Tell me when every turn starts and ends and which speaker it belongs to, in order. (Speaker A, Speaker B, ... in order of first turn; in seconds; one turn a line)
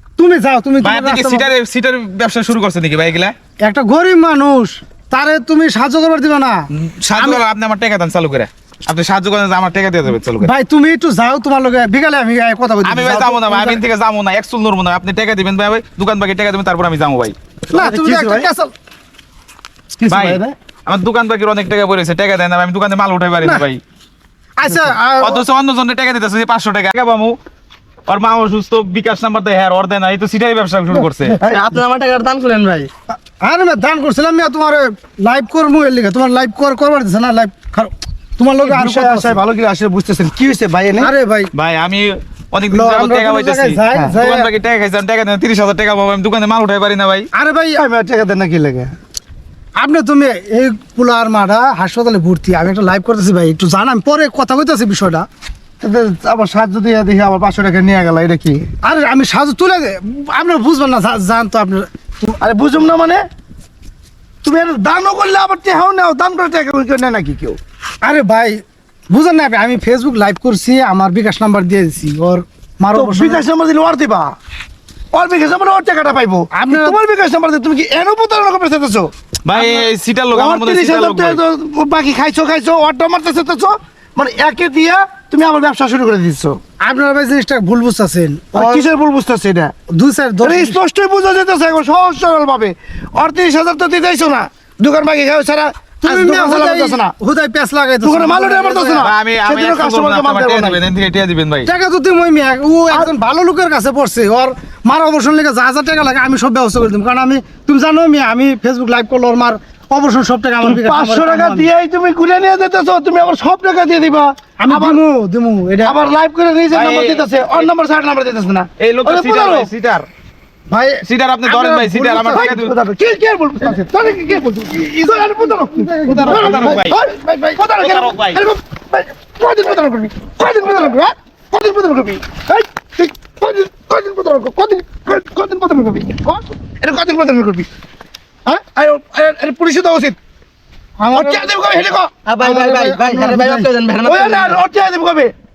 Speaker A: 0.2-1.5
Speaker B: 0.8-3.3
Speaker A: 3.6-7.4
Speaker B: 6.7-10.5
Speaker A: 10.4-13.8
Speaker B: 12.8-17.4
Speaker C: 17.7-18.5
Speaker A: 17.7-18.7
Speaker C: 20.0-20.6
Speaker B: 20.1-23.8
Speaker A: 24.6-25.4
Speaker B: 25.2-27.4
Speaker B: 28.1-31.4
Speaker C: 31.4-31.8
Speaker D: 31.4-32.9
Speaker A: 33.1-39.4
Speaker C: 38.6-41.1
Speaker A: 41.0-41.5
Speaker B: 41.5-47.3
Speaker A: 42.7-44.5
Speaker A: 47.3-47.8
Speaker C: 47.8-48.9
Speaker A: 49.8-55.3
Speaker C: 55.8-58.7
Speaker A: 58.8-62.4
Speaker C: 62.4-63.2
Speaker C: 64.4-67.6
Speaker A: 68.0-73.5
Speaker C: 72.9-74.3
Speaker C: 75.1-79.1
Speaker A: 76.5-77.0
Speaker B: 79.5-81.4
Speaker C: 80.3-86.6
Speaker A: 86.8-88.9
Speaker C: 88.5-89.7
Speaker A: 89.9-90.8
Speaker C: 90.4-97.1
Speaker A: 96.0-99.1
Speaker C: 98.0-100.8
Speaker B: 99.0-101.7
Speaker A: 101.7-111.7
Speaker C: 110.6-115.0
Speaker A: 114.6-116.0
Speaker C: 115.8-119.7
Speaker B: 116.7-117.7
Speaker B: 118.8-120.1
Speaker A: 120.7-122.5
Speaker B: 121.0-122.7
Speaker C: 122.3-137.7
Speaker A: 125.4-126.8
Speaker B: 126.2-127.0
Speaker B: 127.8-128.4
Speaker C: 138.5-140.2
Speaker A: 141.0-141.5
Speaker C: 141.1-142.1
Speaker D: 142.2-144.6
Speaker A: 142.4-143.7
Speaker C: 144.0-145.3